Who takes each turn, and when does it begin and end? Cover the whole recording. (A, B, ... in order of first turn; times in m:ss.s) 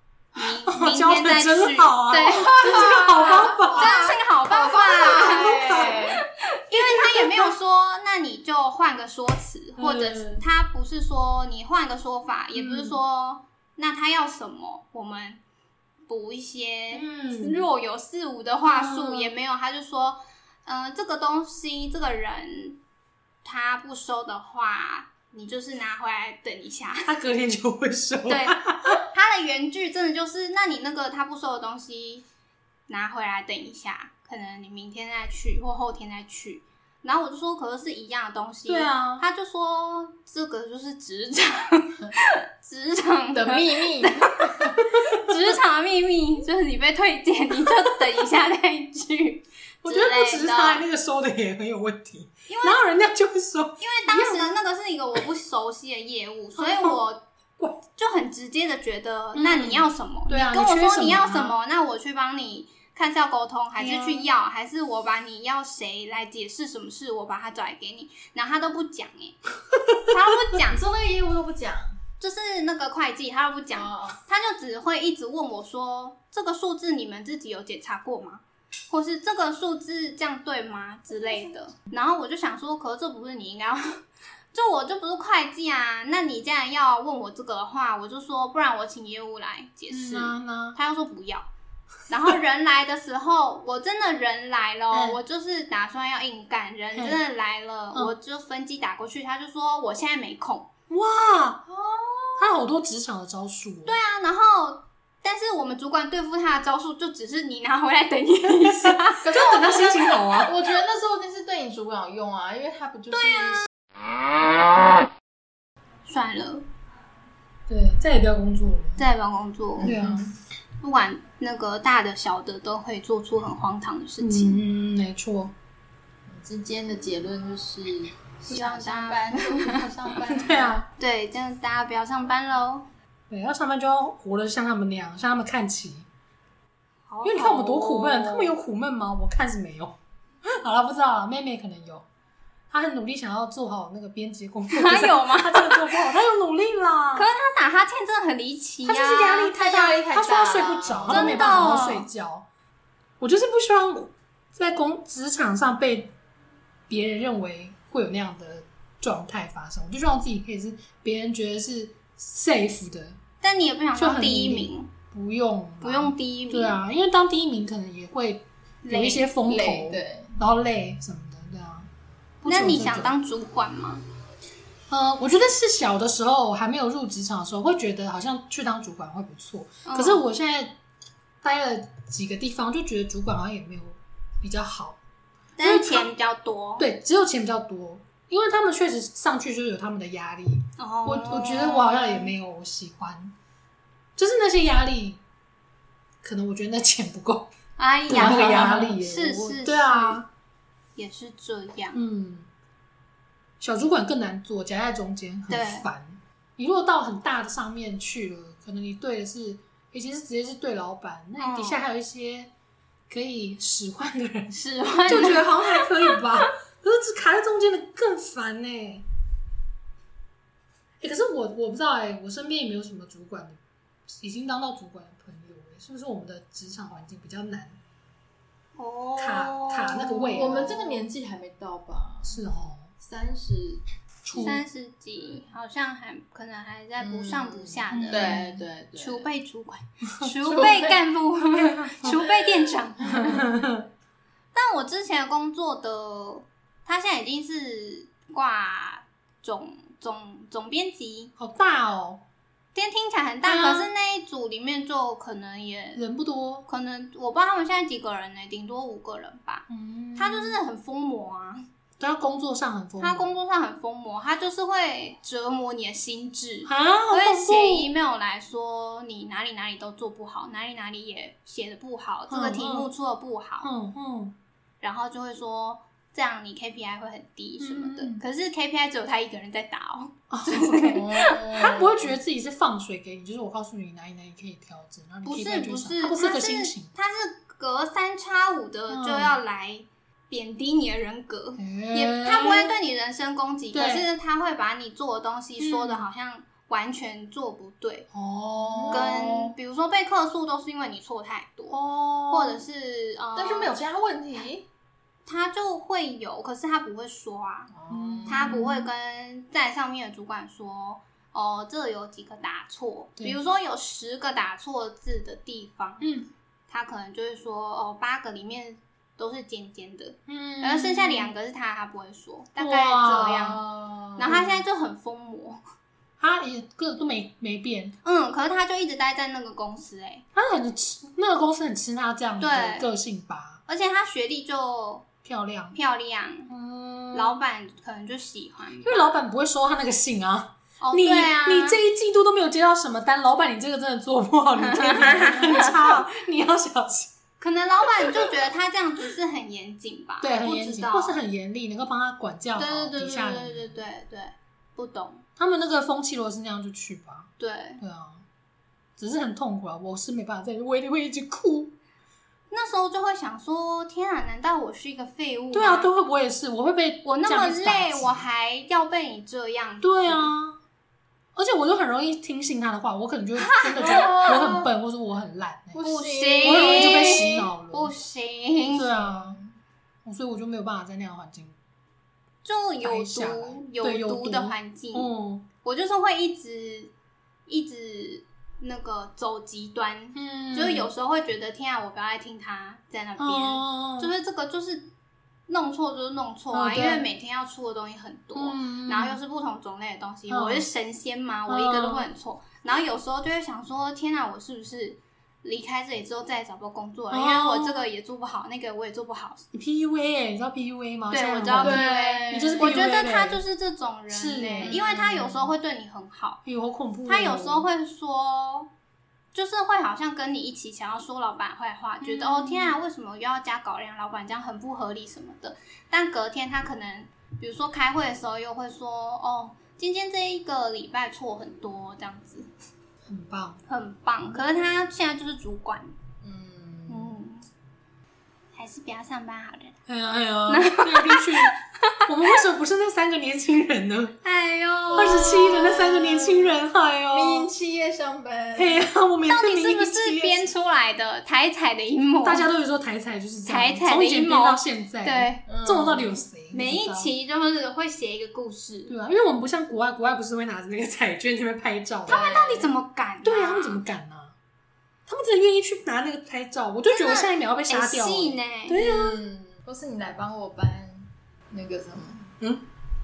0:00.3-0:15.4 A
0:00.6-0:04.0 B
0:02.6-0:06.2 C
0:05.3-0:06.1 B
0:09.8-0:10.4 B
0:12.5-0:13.0 B
0:16.1-0:22.8 A
0:16.9-0:17.6 B
0:18.7-0:19.3 B
0:23.4-0:27.2 A
0:27.0-0:29.0 B
0:28.3-0:32.2 A
0:32.9-0:50.8 A
0:38.7-0:39.2 B
0:43.3-0:44.7 C
0:45.0-0:45.3 B
0:49.8-0:54.6 B
0:52.5-0:52.8 A
0:53.8-0:57.2 A
0:56.6-0:57.0 B
0:57.6-0:57.8 B
0:58.0-1:09.4 A
0:59.3-1:01.6 B
1:03.8-1:04.3 B
1:10.0-1:10.8 A
1:10.6-1:12.0 C
1:12.2-1:31.5 A
1:13.7-1:14.2 C
1:29.9-1:30.8 B
1:32.1-1:40.7 A
1:34.9-1:35.2 B
1:36.9-1:37.2 B
1:40.9-1:41.6 B
1:41.6-1:42.5 C
1:42.4-1:44.0 B
1:43.8-1:49.9 A
1:48.8-1:50.6 B
1:49.4-1:53.7 C
1:53.2-1:53.7 A
1:56.0-1:56.6 A
1:57.7-1:59.0 B
1:59.0-1:59.9 A
1:59.8-2:00.3 C
1:59.8-2:00.3 B
2:00.8-2:04.6 A
2:04.2-2:05.5 B
2:06.3-2:10.8 C
2:08.5-2:09.9 A
2:10.3-2:10.9 B
2:10.9-2:12.9 A
2:13.3-2:16.1 B
2:17.1-2:18.5 A
2:17.2-2:20.0 B
2:20.5-2:22.1 B
2:22.7-2:27.3 B
2:24.7-2:26.1 A
2:27.1-2:32.1 A
2:28.8-2:32.5 B
2:29.7-2:31.9 C
2:33.2-2:36.1 B
2:36.9-2:43.2 B
2:43.4-2:44.9 A
2:44.0-2:51.9 B
2:45.8-2:46.8 A
2:48.8-2:49.3 A
2:49.4-2:50.3 C
2:52.4-2:53.1 B
2:52.4-2:54.0 A
2:54.9-3:00.8 B
2:59.8-3:00.2 A
3:01.4-3:05.0 B
3:05.6-3:06.8 A
3:05.6-3:06.1 B
3:06.8-3:13.3 B
3:10.8-3:12.3 A
3:14.2-3:15.2 B
3:16.2-3:17.5 B
3:17.8-3:20.2 A
3:18.1-3:20.3 B
3:21.0-3:22.0 A
3:21.9-3:22.5 B
3:23.6-3:32.5 B
3:25.5-3:25.8 A
3:31.4-3:31.8 A
3:33.1-3:39.0 B
3:34.5-3:36.5 A
3:41.0-3:43.6 B
3:44.1-3:47.8 B
3:48.8-3:51.0 A
3:49.2-3:50.8 B
3:50.3-3:52.4 C
3:52.2-3:52.9 B
3:53.0-3:53.8 C
3:54.2-3:54.6 B
3:54.3-4:03.6 A
3:57.0-3:59.3 C
3:57.9-3:58.6 B
4:00.4-4:01.0 C
4:01.5-4:02.2 B
4:03.0-4:03.8 B
4:04.5-4:11.3 A
4:11.4-4:12.2 B
4:12.7-4:16.0 A
4:13.4-4:13.9 B
4:16.0-4:16.6 B
4:16.7-4:19.6 A
4:19.7-4:20.6 B
4:20.2-4:21.6 A
4:22.0-4:23.3 B
4:23.0-4:33.7 A
4:26.6-4:27.9 B
4:32.3-4:32.9 B
4:33.6-4:34.3 B
4:34.8-4:41.6 A
4:37.6-4:38.2 B
4:40.3-4:46.9 B
4:40.9-4:42.2 C
4:45.2-4:58.1 A
4:48.9-4:49.4 B
4:51.6-4:52.7 B
4:53.7-4:54.1 B
4:55.6-4:56.1 B
4:58.1-4:59.5 B
4:58.7-4:59.2 C
4:58.9-5:03.8 A
5:01.7-5:02.6 B
5:03.3-5:04.6 C
5:05.2-5:07.7 A
5:07.7-5:08.6 C
5:07.9-5:08.9 B
5:08.3-5:16.1 A
5:16.0-5:16.3 B
5:16.7-5:23.6 A
5:20.3-5:21.3 B
5:22.6-5:23.7 B
5:23.8-5:24.4 C
5:24.1-5:25.6 A
5:26.2-5:28.0 B
5:28.0-5:30.2 A
5:30.3-5:33.6 B
5:32.4-5:32.9 A
5:33.7-5:35.1 A
5:35.2-5:35.8 B
5:35.7-5:36.5 A
5:36.5-5:37.4 B
5:37.1-5:39.0 A
5:38.8-5:47.1 B
5:40.8-5:41.8 A
5:44.6-5:45.9 A
5:47.4-5:51.2 A
5:48.0-5:48.3 B
5:50.2-5:53.8 B
5:52.6-5:55.2 A
5:55.4-5:58.2 B
5:57.4-5:57.8 A
5:59.0-6:01.7 B
6:02.5-6:05.9 A
6:05.5-6:08.3 B
6:07.0-6:10.3 A
6:09.8-6:10.6 B
6:11.3-6:15.8 B
6:13.4-6:14.6 A
6:13.8-6:14.7 C
6:15.7-6:17.5 C
6:15.8-6:18.9 A
6:16.4-6:17.9 B
6:18.7-6:19.4 B
6:19.0-6:19.5 C
6:20.0-6:21.6 B
6:22.4-6:25.1 A
6:22.8-6:25.4 B
6:25.6-6:26.9 A
6:27.5-6:34.9 A
6:30.1-6:30.9 B
6:33.2-6:34.1 B
6:35.5-6:49.4 A
6:36.5-6:37.0 B
6:38.3-6:39.2 B
6:40.3-6:40.6 B
6:41.5-6:42.0 B
6:47.1-6:47.9 B
6:49.5-6:53.4 B
6:51.1-6:56.4 A
6:51.5-6:52.8 C
6:54.1-6:55.5 B
6:54.4-6:54.8 C
6:56.4-6:57.6 B
6:57.0-6:58.7 A
6:59.3-7:12.5 A
7:02.0-7:02.8 B
7:13.1-7:13.6 B
7:13.7-7:15.9 A
7:16.2-7:17.2 C
7:16.9-7:17.4 A
7:18.5-7:19.7 A
7:19.9-7:24.2 B
7:20.5-7:21.9 A
7:24.2-7:26.1 A
7:24.9-7:26.6 C
7:24.9-7:27.5 B
7:27.1-7:28.9 C
7:28.5-7:30.5 B
7:29.3-7:32.5 A
7:32.2-7:37.1 B
7:33.4-7:35.4 A
7:35.4-7:36.2 C
7:36.5-7:38.9 A
7:38.9-7:42.5 B
7:42.0-7:42.7 C
7:42.1-7:43.8 A
7:43.2-7:44.3 B
7:45.1-7:49.2 B
7:46.9-7:48.8 A
7:48.7-7:52.3 C
7:52.4-7:52.6 B